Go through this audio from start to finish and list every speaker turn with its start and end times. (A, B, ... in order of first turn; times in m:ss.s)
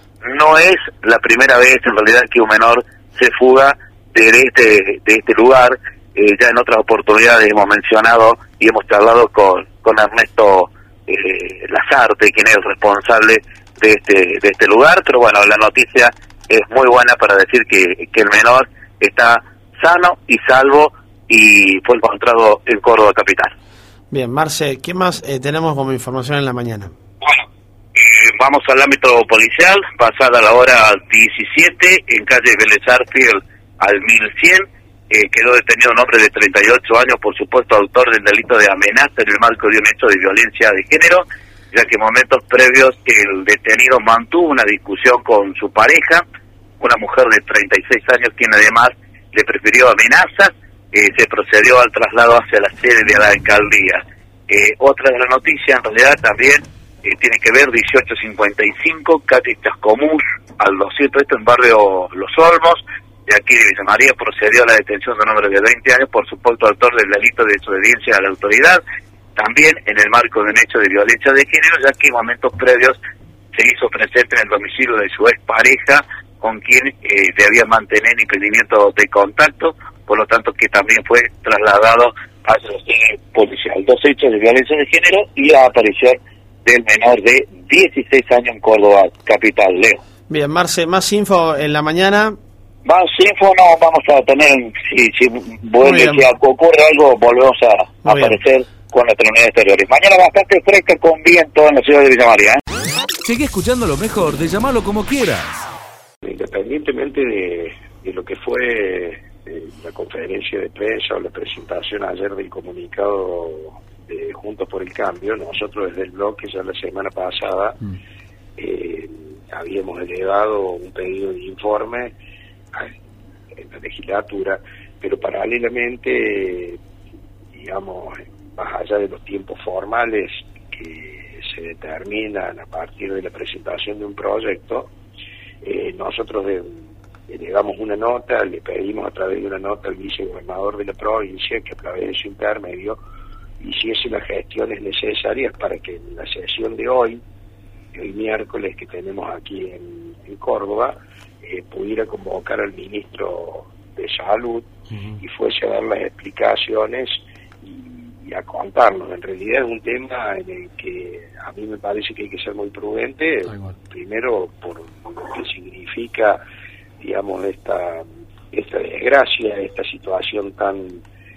0:00.2-0:23.5 A
0:24.1-0:26.9 B
0:28.0-0:46.2 A
0:46.8-1:08.8 A
1:09.4-1:13.0 A
1:13.5-1:30.0 A
1:30.3-1:32.4 B
1:32.8-1:42.6 A
1:35.8-1:36.3 B
1:38.0-1:38.4 B
1:43.2-1:45.7 C
1:46.2-1:57.8 D
1:58.6-2:02.1 D
2:03.5-2:06.8 D
2:07.5-2:14.9 D
2:15.6-2:16.8 D
2:17.3-2:23.0 D
2:23.6-2:27.2 D
2:27.9-2:34.7 D
2:34.9-2:35.2 B
2:35.2-2:46.4 D
2:43.5-2:43.8 B
2:47.0-2:51.0 D